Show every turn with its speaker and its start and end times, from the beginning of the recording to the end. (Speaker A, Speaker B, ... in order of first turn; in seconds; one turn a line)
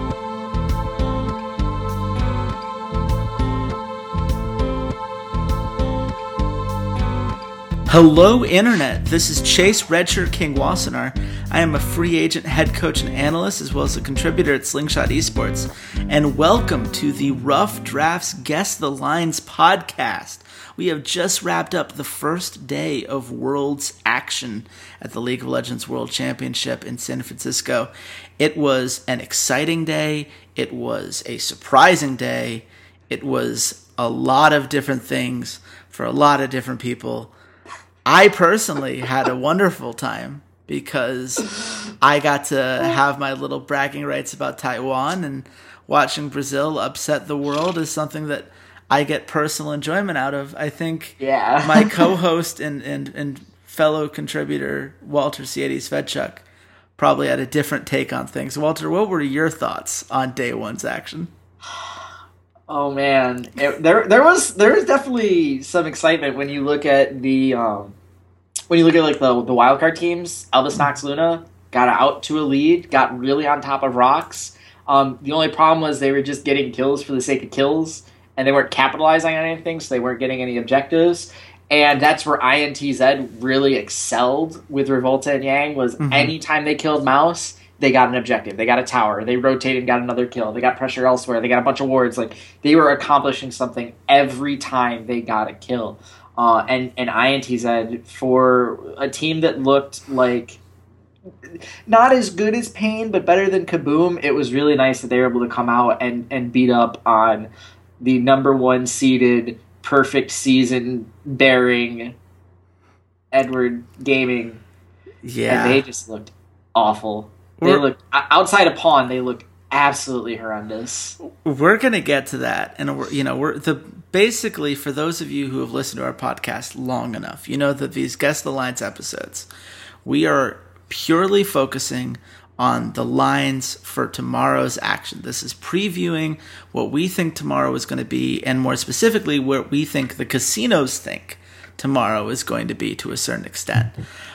Speaker A: 7.9-37.3
Speaker A: 38.0-56.4
Speaker B: 51.2-52.1
Speaker A: 57.0-61.3
Speaker B: 62.7-67.9
Speaker B: 68.7-100.6
Speaker A: 86.0-86.3
Speaker B: 101.9-107.5
Speaker B: 108.0-112.1
Speaker B: 113.3-114.6
Speaker A: 115.2-115.8
Speaker B: 115.5-121.2
Speaker A: 117.6-117.8
Speaker A: 121.2-129.5
Speaker A: 130.0-143.9